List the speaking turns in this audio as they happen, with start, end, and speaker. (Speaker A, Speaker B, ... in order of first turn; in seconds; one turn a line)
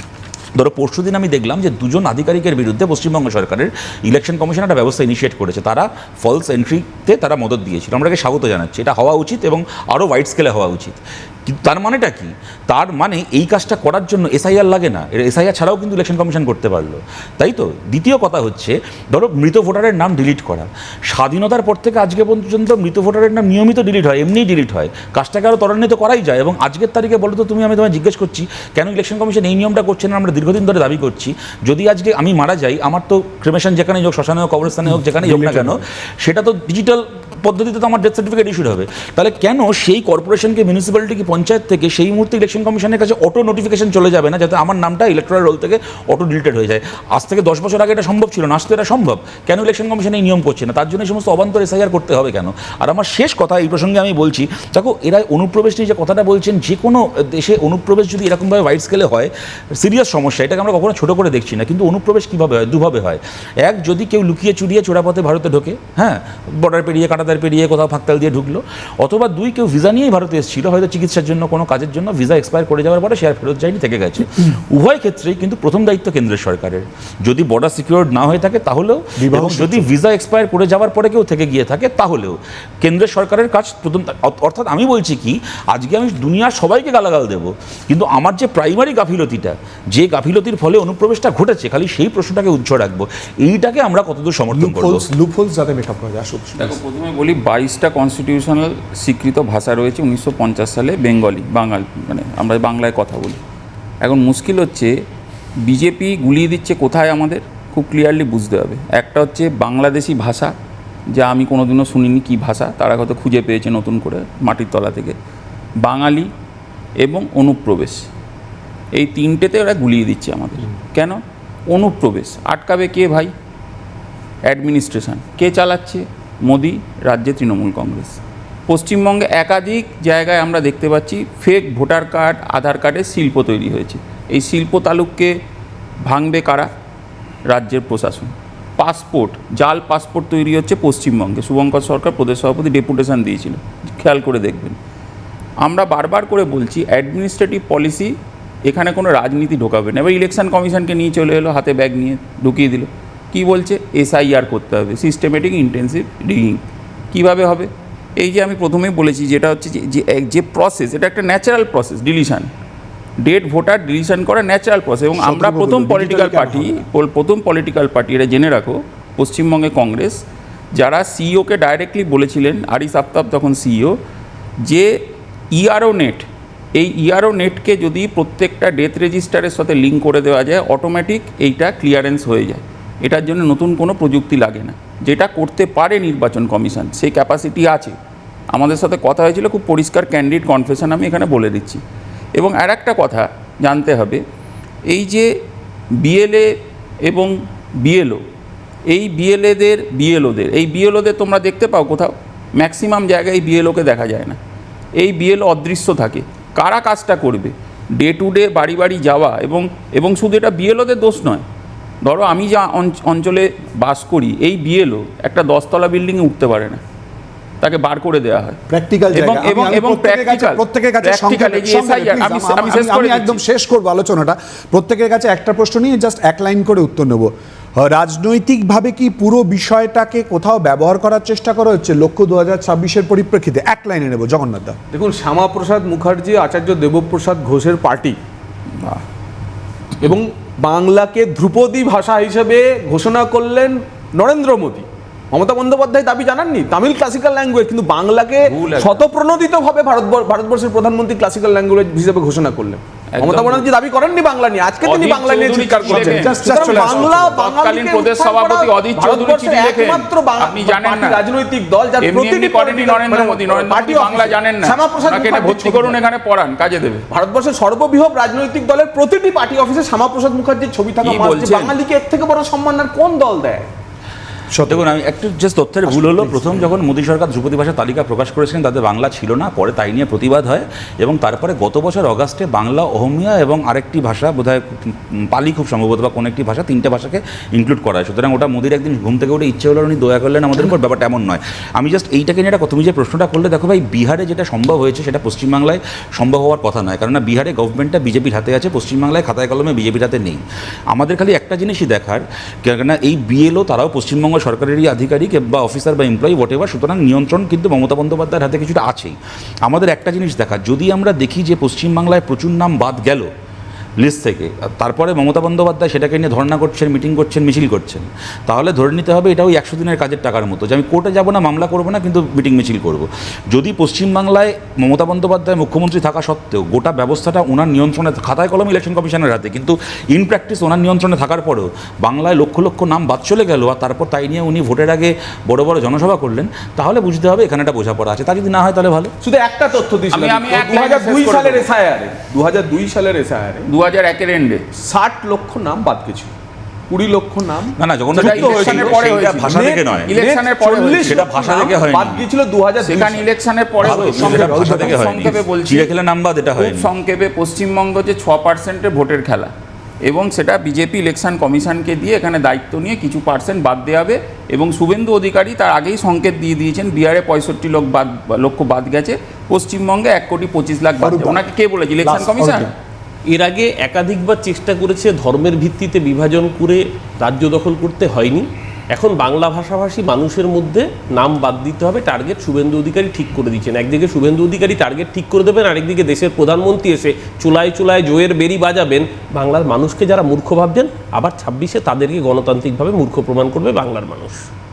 Speaker A: 0.6-95.1
Speaker B: 34.9-35.9
Speaker B: 79.2-79.9
Speaker B: 94.5-96.8
Speaker C: 96.6-103.4
Speaker C: 104.0-105.0
Speaker C: 105.6-110.5
Speaker C: 111.1-115.2
Speaker C: 115.8-116.3
Speaker C: 117.0-118.1
Speaker C: 118.9-123.3
Speaker C: 124.5-135.4
Speaker C: 136.1-136.7
Speaker C: 137.5-144.8
Speaker C: 145.6-148.2
Speaker C: 148.7-156.6
Speaker C: 157.1-162.5
Speaker C: 163.2-174.0
Speaker B: 165.2-166.8
Speaker C: 174.6-188.0
Speaker C: 188.5-191.8
Speaker C: 192.3-194.2
Speaker C: 194.9-195.4
Speaker C: 196.0-198.2
Speaker C: 198.9-204.4
Speaker C: 205.0-211.4
Speaker C: 212.0-216.8
Speaker C: 217.6-218.6
Speaker B: 218.7-234.8
Speaker C: 219.1-223.4
Speaker D: 234.9-238.2
Speaker D: 240.0-266.0
Speaker C: 248.5-249.1
Speaker C: 253.2-253.7
Speaker C: 254.8-261.3
Speaker B: 255.8-257.4
Speaker C: 262.0-267.1
Speaker D: 267.1-273.7
Speaker C: 271.0-271.8
Speaker B: 274.5-274.9
Speaker A: 274.7-313.3
Speaker B: 275.9-276.7
Speaker A: 314.0-339.1
Speaker D: 339.2-343.7
Speaker C: 340.1-341.7
Speaker C: 343.7-344.6
Speaker D: 344.8-346.3
Speaker D: 346.9-353.3
Speaker A: 347.8-350.1
Speaker C: 348.2-351.3
Speaker A: 351.0-352.2
Speaker C: 352.8-355.9
Speaker B: 353.8-355.4
Speaker A: 353.8-356.9
Speaker C: 356.6-359.5
Speaker C: 360.0-372.7
Speaker B: 371.0-371.5
Speaker B: 372.0-372.7
Speaker E: 373.3-394.4